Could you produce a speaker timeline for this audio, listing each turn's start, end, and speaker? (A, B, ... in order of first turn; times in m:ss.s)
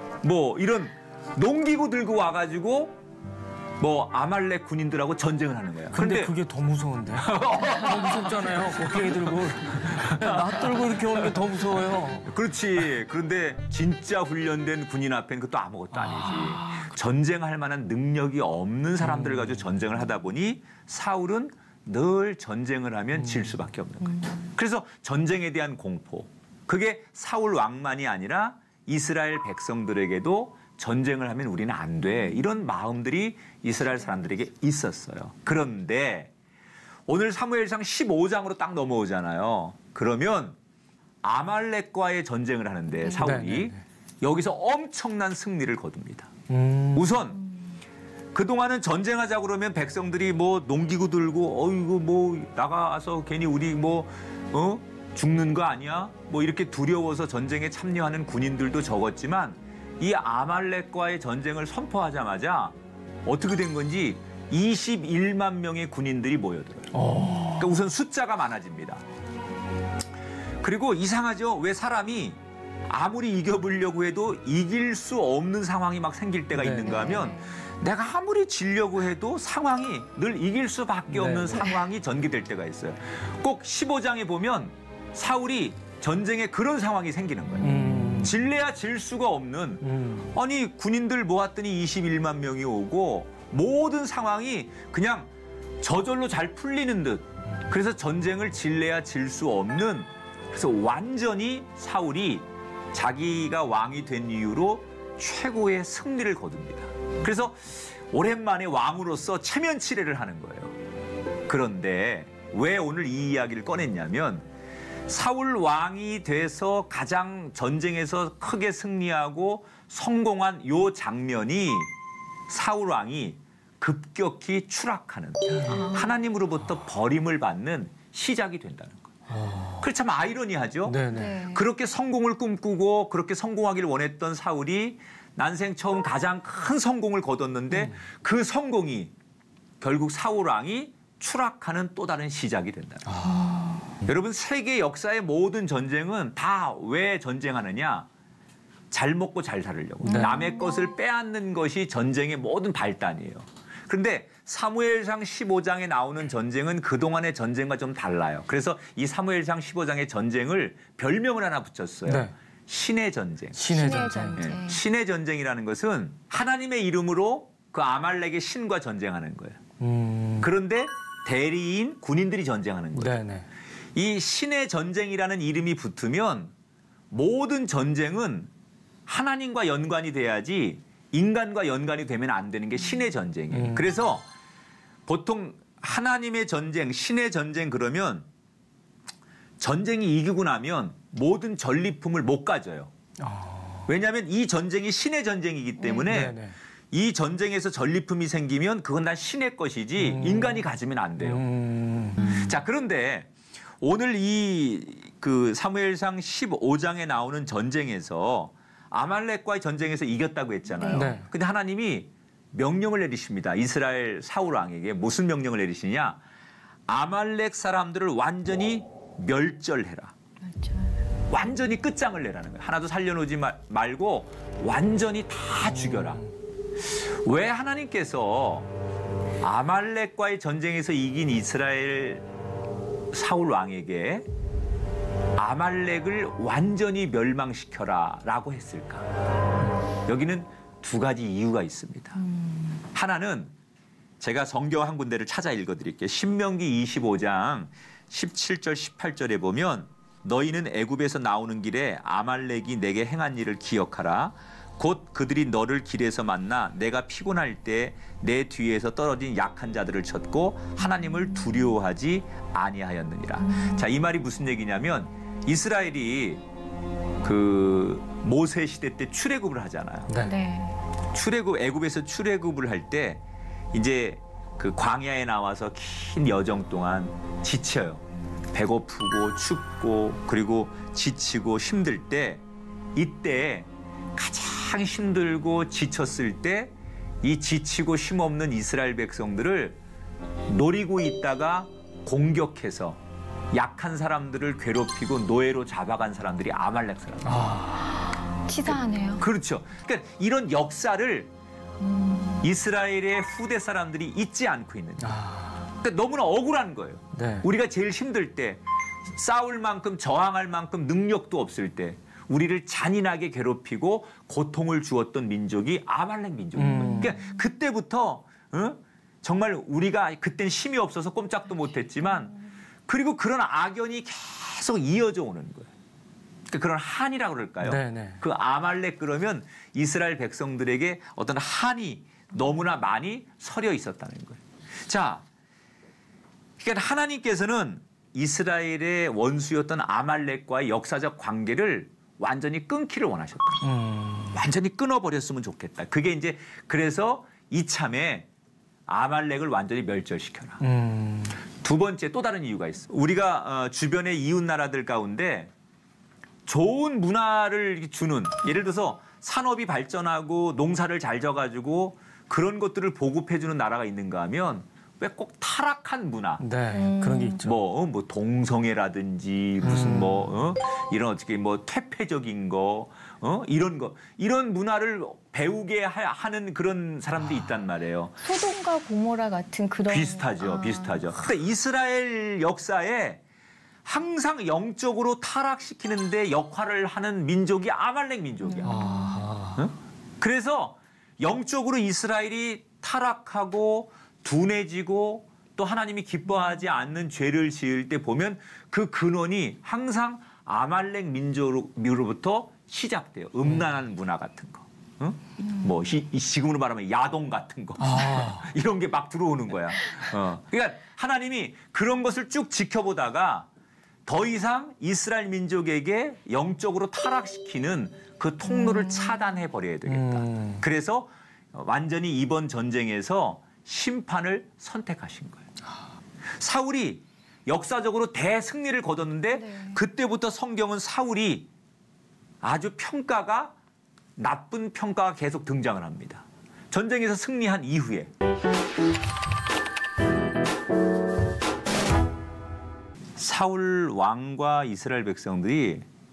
0:00.2-0:03.0 A
0:03.8-0:06.3 A
0:05.9-0:12.3 B
0:07.2-0:11.3 A
0:12.2-0:36.3 A
0:15.9-0:16.9 B
0:19.0-0:19.7 B
0:23.2-0:23.5 B
0:37.1-0:40.6 A
0:41.2-0:46.3 A
0:43.2-0:43.8 B
0:46.5-0:47.1 B
0:46.9-0:47.4 A
0:48.3-1:07.0 A
1:06.9-1:07.8 B
1:07.5-1:09.0 A
1:10.6-1:50.8 A
1:16.5-1:17.1 B
1:16.8-1:17.5 C
1:21.1-1:21.7 B
1:27.6-1:28.4 B
1:29.8-1:30.3 B
1:51.5-1:54.4 A
1:55.1-2:01.9 A
2:02.5-2:09.1 A
2:09.3-2:09.8 B
2:09.8-2:19.1 A
2:10.8-2:11.4 B
2:11.1-2:11.6 C
2:19.8-2:23.3 A
2:23.0-2:23.7 B
2:23.3-2:23.8 C
2:24.0-2:28.1 A
2:28.9-2:43.7 A
2:30.0-2:30.6 C
2:30.0-2:30.4 B
2:42.0-2:42.3 B
2:43.5-2:44.5 B
2:43.7-2:44.8 C
2:44.4-2:49.6 A
2:49.8-2:50.5 B
2:50.4-2:53.2 A
2:52.9-2:53.5 B
2:53.9-2:56.5 A
2:57.1-2:58.5 A
2:59.0-3:04.3 A
3:03.5-3:03.9 B
3:05.1-3:08.3 A
3:09.6-3:12.9 A
3:13.2-3:13.9 B
3:13.8-3:21.4 A
3:16.0-3:16.6 B
3:20.0-3:20.6 B
3:21.2-3:22.4 B
3:22.2-3:36.2 A
3:30.8-3:31.1 C
3:30.9-3:31.3 B
3:36.9-3:40.1 A
3:40.5-3:40.9 C
3:41.3-3:46.3 A
3:45.7-3:46.3 B
3:46.8-3:48.7 A
3:49.4-3:52.2 A
3:53.1-3:54.3 A
3:55.4-3:59.0 A
4:00.1-4:02.2 A
4:02.3-4:02.7 C
4:02.9-4:03.5 A
4:04.2-4:26.4 A
4:23.4-4:23.8 C
4:27.2-4:30.2 A
4:30.1-4:30.4 B
4:30.2-4:30.8 C
4:31.1-4:42.4 A
4:43.0-4:49.8 A
4:50.5-4:53.0 A
4:53.5-4:57.6 A
4:57.2-4:57.9 B
4:58.4-4:59.2 C
4:58.7-5:01.3 A
5:01.8-5:02.4 C
5:02.4-5:22.3 A
5:05.0-5:05.6 B
5:07.1-5:07.5 B
5:16.6-5:17.2 B
5:22.9-5:25.7 A
5:26.5-5:35.2 A
5:27.6-5:28.2 B
5:36.6-5:43.7 A
5:43.6-5:44.4 B
5:44.3-5:48.3 A
5:48.9-5:50.6 A
5:50.6-5:51.4 B
5:51.6-5:55.5 A
5:56.4-6:06.4 A
6:06.4-6:07.5 B
6:06.7-6:07.4 C
6:07.4-6:18.1 A
6:09.6-6:10.2 B
6:18.2-6:21.0 C
6:19.9-6:23.2 A
6:23.8-6:28.8 A
6:28.5-6:29.3 C
6:28.6-6:29.6 B
6:29.5-6:53.5 A
6:47.8-6:48.5 B
6:54.0-7:05.4 A
6:58.5-6:59.2 C
6:59.9-7:00.6 B
7:06.4-7:11.5 A
7:09.4-7:09.8 C
7:12.4-7:13.5 A
7:14.2-7:18.1 A
7:23.2-7:25.8 A